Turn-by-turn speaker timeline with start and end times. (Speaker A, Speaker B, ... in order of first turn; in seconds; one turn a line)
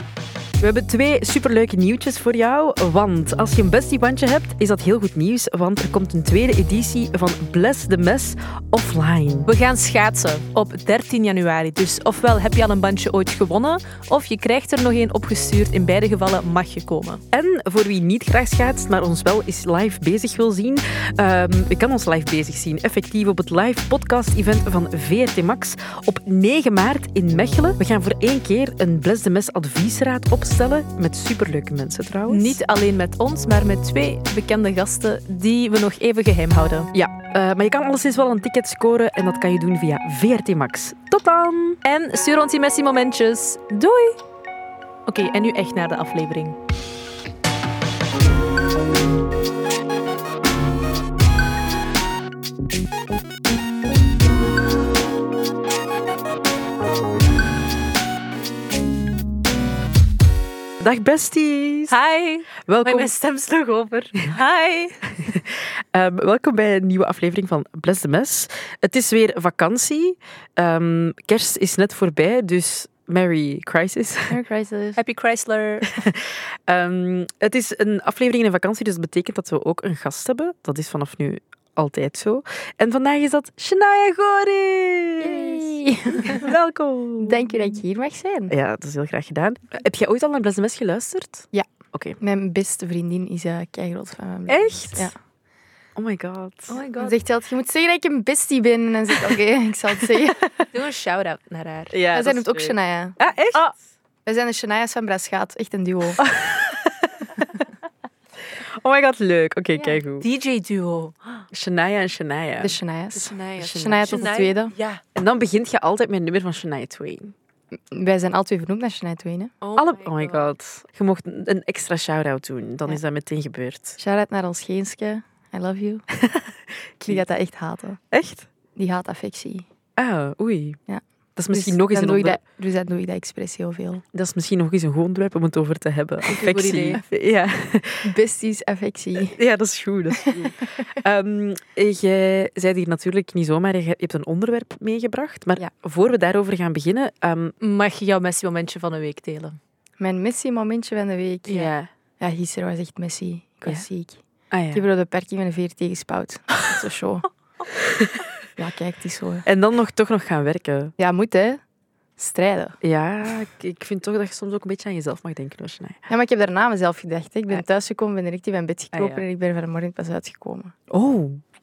Speaker A: 0.6-9.5
Speaker B: 9.4-17.2
Speaker A: 17.3-32.6
Speaker B: 32.3-36.9
Speaker A: 36.9-41.8
Speaker B: 41.8-44.2
Speaker B: 45.1-46.6
Speaker A: 60.8-62.0
Speaker B: 61.9-65.0
Speaker A: 62.6-63.1
Speaker A: 65.2-74.4
Speaker C: 74.3-75.0
Speaker B: 75.0-75.9
Speaker A: 75.9-87.5
Speaker C: 85.2-86.5
Speaker C: 87.2-88.5
Speaker A: 88.5-92.2
Speaker C: 92.2-95.1
Speaker A: 94.5-95.1
Speaker A: 96.0-96.8
Speaker B: 96.7-97.1
Speaker C: 97.0-100.4
Speaker A: 100.0-100.6
Speaker B: 100.7-102.0
Speaker A: 101.9-103.6
Speaker C: 102.1-103.2
Speaker C: 104.2-106.2
Speaker A: 106.2-107.5
Speaker A: 108.6-110.2
Speaker B: 109.8-111.5
Speaker A: 111.5-112.8
Speaker C: 112.6-114.7
Speaker B: 113.1-115.0
Speaker A: 113.6-114.1
Speaker A: 115.1-117.3
Speaker C: 117.9-119.5
Speaker B: 119.6-120.5
Speaker A: 119.8-124.0
Speaker C: 124.0-126.0
Speaker A: 126.1-127.2
Speaker C: 127.0-128.0
Speaker A: 128.1-128.5
Speaker C: 128.8-129.7
Speaker A: 130.0-130.8
Speaker C: 130.9-134.0
Speaker A: 131.3-132.4
Speaker A: 134.1-138.1
Speaker B: 136.3-137.0
Speaker C: 138.0-139.4
Speaker A: 139.2-147.5
Speaker C: 140.2-140.6
Speaker B: 147.6-149.6
Speaker C: 150.0-151.7
Speaker A: 151.5-151.9
Speaker C: 152.2-154.2
Speaker A: 154.5-154.8
Speaker C: 154.7-157.3
Speaker C: 158.6-159.4
Speaker A: 159.4-160.9
Speaker C: 161.0-161.6
Speaker C: 162.2-162.8
Speaker A: 162.8-166.0
Speaker C: 166.1-170.7
Speaker A: 168.9-169.2
Speaker A: 170.9-171.4